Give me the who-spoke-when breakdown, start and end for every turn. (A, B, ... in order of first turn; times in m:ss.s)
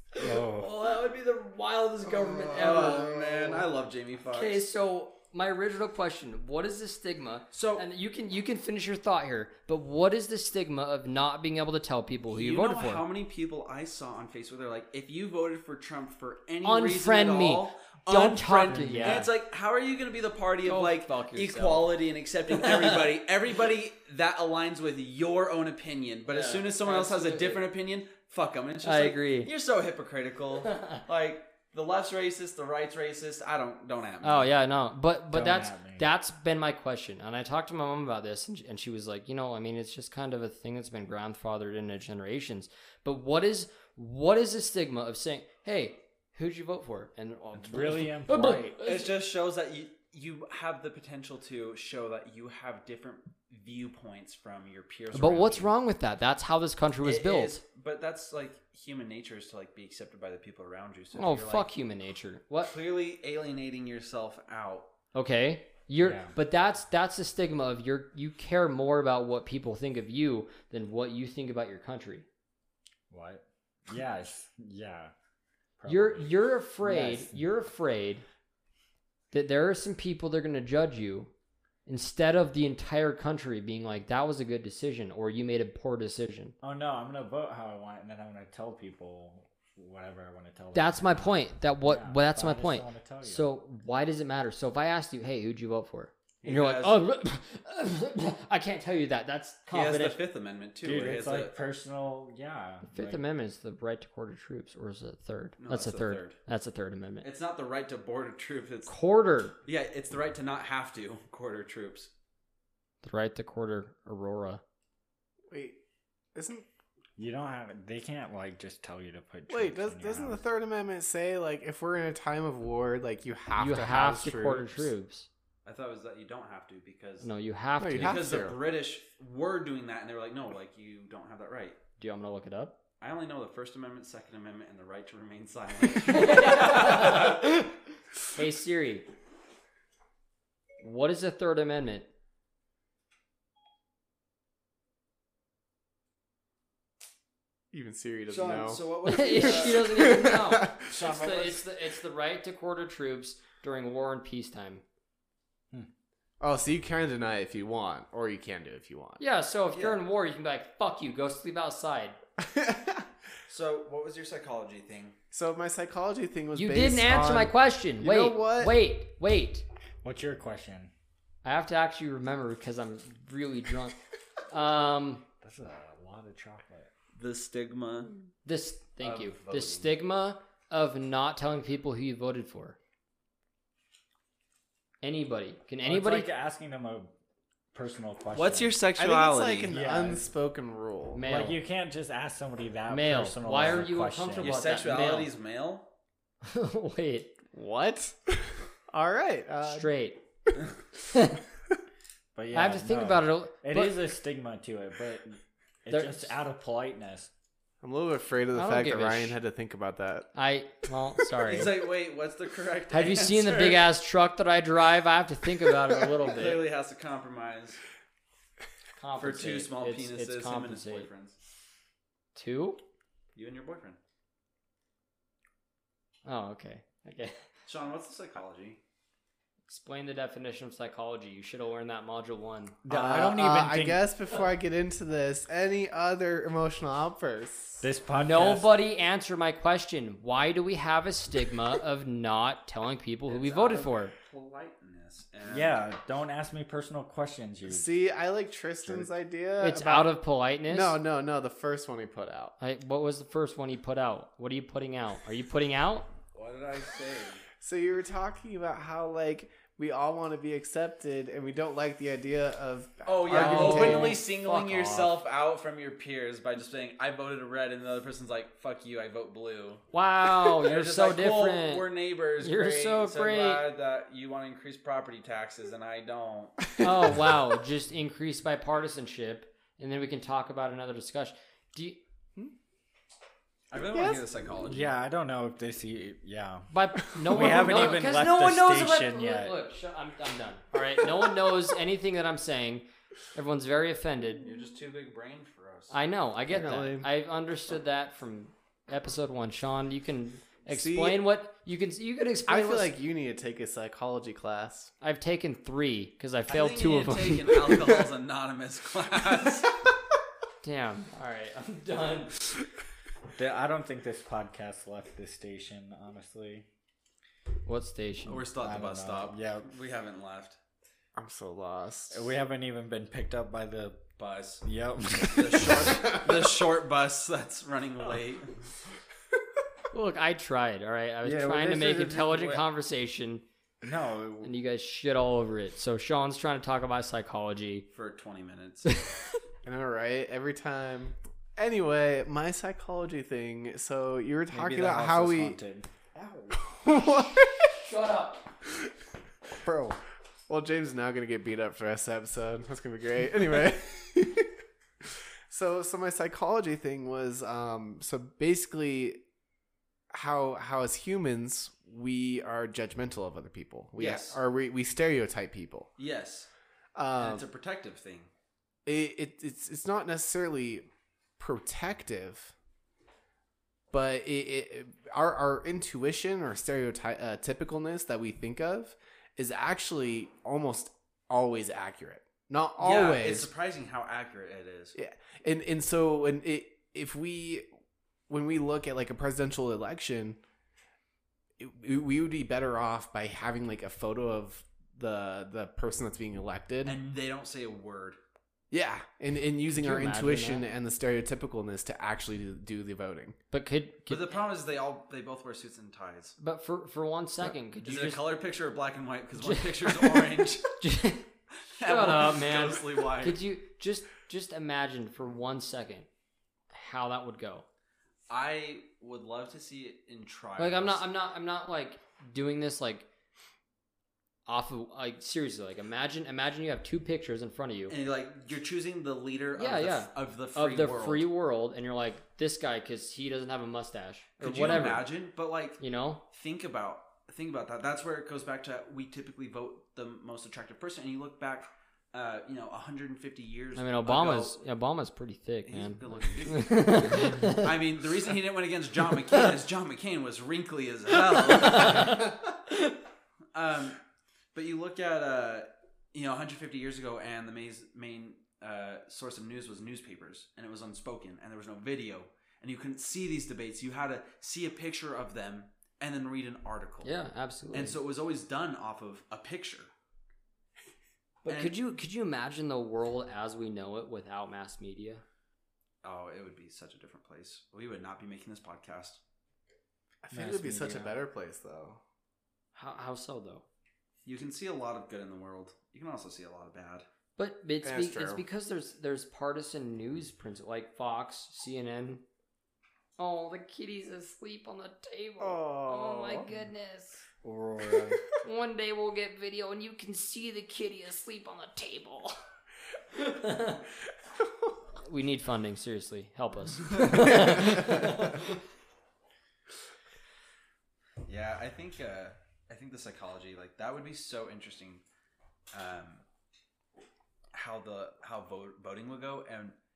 0:00.2-0:03.5 A
0:00.2-0:00.7 B
0:02.2-0:04.7 C
0:04.3-0:13.0 A
0:07.5-0:07.8 C
0:12.3-0:34.5 C
0:16.6-0:19.3 A
0:18.7-0:19.3 B
0:20.6-0:21.9 A
0:22.6-0:23.0 A
0:26.3-0:27.7 A
0:28.8-0:29.5 A
0:34.2-0:49.1 A
0:35.3-0:36.1 B
0:47.6-0:48.8 B
0:48.8-0:55.7 C
0:55.1-0:57.6 A
0:57.0-1:01.7 C
1:01.1-1:02.8 A
1:02.7-1:04.9 C
1:05.1-1:12.3 A
1:06.0-1:06.3 B
1:13.1-1:15.1 B
1:15.8-1:16.3 B
1:15.9-1:18.2 A
1:16.8-1:17.4 B
1:19.3-1:21.3 A
1:21.9-1:26.6 A
1:26.6-1:33.4 B
1:30.7-1:40.2 A
1:36.4-1:37.0 C
1:39.7-1:41.5 C
1:40.8-1:43.2 B
1:42.9-1:47.3 A
1:45.6-1:46.4 C
1:47.2-1:48.9 C
1:48.9-1:49.6 A
1:49.6-1:52.1 C
1:53.0-1:54.6 A
1:55.5-1:55.8 D
1:56.4-1:56.7 D
1:57.2-2:00.4 B
1:59.5-2:04.9 D
2:03.6-2:05.3 A
2:05.6-2:07.3 C
2:07.2-2:08.2 A
2:07.8-2:08.6 D
2:08.0-2:11.8 C
2:12.0-2:12.8 A
2:13.0-2:17.4 C
2:16.1-2:17.7 A
2:18.3-2:19.1 A
2:20.8-2:22.1 A
2:27.7-2:30.9 D
2:28.3-2:30.2 C
2:29.1-2:34.8 A
2:30.8-2:31.6 C
2:36.4-2:39.2 D
2:39.2-2:42.2 A
2:39.7-2:40.0 C
2:42.4-2:43.1 D
2:43.5-2:45.2 C
2:45.3-2:48.8 D
2:46.6-2:49.7 A
2:50.0-2:50.9 B
2:51.4-2:54.0 A
2:54.5-2:55.2 A
2:55.4-2:56.9 B
2:57.2-2:58.3 C
2:58.4-3:02.8 A
2:59.0-3:00.0 C
3:05.0-3:06.3 A
3:05.8-3:07.1 B
3:07.7-3:08.7 B
3:08.3-3:09.7 C
3:09.0-3:11.3 D
3:09.7-3:10.2 B
3:11.1-3:11.6 A
3:11.3-3:14.6 B
3:12.9-3:15.3 A
3:14.4-3:15.9 C
3:16.4-3:17.4 A
3:17.5-3:19.9 D
3:19.6-3:20.2 A
3:21.1-3:21.4 A
3:22.4-3:27.3 B
3:22.5-3:24.0 A
3:25.9-3:26.3 A
3:27.8-3:30.3 D
3:28.6-3:29.4 A
3:30.4-3:31.7 A
3:31.5-3:33.9 C
3:32.9-3:36.6 A
3:36.2-3:37.8 C
3:39.0-3:41.1 A
3:39.2-3:41.4 C
3:42.4-3:42.8 A
3:43.4-3:44.0 C
3:46.3-3:47.4 A
3:47.7-3:48.8 C
3:49.7-3:52.8 A
3:52.8-3:54.0 B
3:52.9-3:57.9 D
3:57.8-3:58.7 B
3:58.2-4:04.1 A
4:03.3-4:05.8 C
4:05.5-4:07.9 B
4:07.6-4:10.2 D
4:08.8-4:09.1 B
4:09.6-4:11.0 A
4:10.7-4:12.5 D
4:12.6-4:16.1 A
4:16.3-4:17.4 C
4:17.6-4:24.2 D
4:23.0-4:29.9 C
4:23.3-4:25.2 A
4:29.9-4:31.9 A
4:30.5-4:36.8 C
4:32.4-4:33.6 A
4:36.8-4:37.2 D
4:36.8-4:42.0 A
4:43.7-4:44.9 C
4:43.9-4:44.2 D
4:44.6-4:46.7 B
4:46.7-4:54.4 A
4:47.2-4:49.5 B
4:47.3-4:47.8 D
4:54.4-4:56.0 C
4:55.9-5:02.9 A
4:56.5-4:57.1 D
5:00.7-5:01.2 D
5:02.5-5:04.9 D
5:05.0-5:07.7 A
5:06.5-5:09.8 C
5:10.6-5:12.4 A
5:13.4-5:16.7 B
5:17.7-5:18.4 A
5:18.3-5:20.6 C
5:18.6-5:19.7 B
5:21.2-5:22.3 D
5:22.1-5:24.0 B
5:24.2-5:24.6 C
5:24.6-5:26.2 B
5:25.3-5:28.5 C
5:29.9-5:33.4 A
5:31.2-5:32.6 B
5:33.8-5:34.5 B
5:34.4-5:37.9 A
5:37.9-5:39.0 C
5:38.9-5:39.1 A
5:39.6-5:45.6 D
5:44.5-5:46.7 B
5:46.6-5:47.7 D
5:47.7-5:48.4 A
5:49.6-5:50.0 B
5:50.5-5:54.5 D
5:55.0-5:59.2 D
6:00.1-6:05.9 D
6:04.0-6:04.4 C
6:06.0-6:06.5 C
6:07.0-6:07.5 D
6:07.2-6:08.3 C
6:08.9-6:10.9 D
6:11.4-6:12.5 D
6:13.9-6:23.5 D
6:22.8-6:25.0 C
6:25.0-6:27.7 D
6:28.3-6:30.4 D
6:31.6-6:37.0 D
6:36.8-6:38.2 C
6:38.7-6:43.4 D
6:39.7-6:40.7 A
6:43.5-6:44.3 A
6:44.1-6:46.4 C
6:46.4-6:48.3 A
6:47.8-6:50.8 C
6:49.4-6:51.3 A
6:51.8-6:53.4 C
6:51.8-6:56.1 A
6:56.7-6:57.7 A
6:58.3-7:01.0 C
7:00.6-7:03.1 A
7:04.5-7:07.9 A
7:07.9-7:11.3 C
7:09.6-7:15.1 A
7:14.4-7:24.6 C
7:15.8-7:16.2 A
7:23.8-7:27.7 A
7:25.7-7:32.3 C
7:31.4-7:32.9 A
7:33.5-7:34.0 C
7:34.5-7:47.1 C
7:47.0-7:48.0 A
7:47.7-7:49.9 C
7:51.4-7:55.2 A
7:51.5-7:51.8 C
7:56.0-7:59.2 C
8:00.2-8:02.0 D
8:00.3-8:01.2 B
8:02.8-8:03.6 A
8:04.2-8:07.1 C
8:07.4-8:12.2 A
8:07.8-8:08.4 D
8:13.2-8:17.2 A
8:15.4-8:16.5 B
8:17.4-8:18.2 B
8:18.4-8:22.4 A
8:23.2-8:23.8 A
8:25.0-8:28.5 A
8:31.2-8:35.0 C
8:35.7-8:36.2 C
8:37.5-8:39.8 C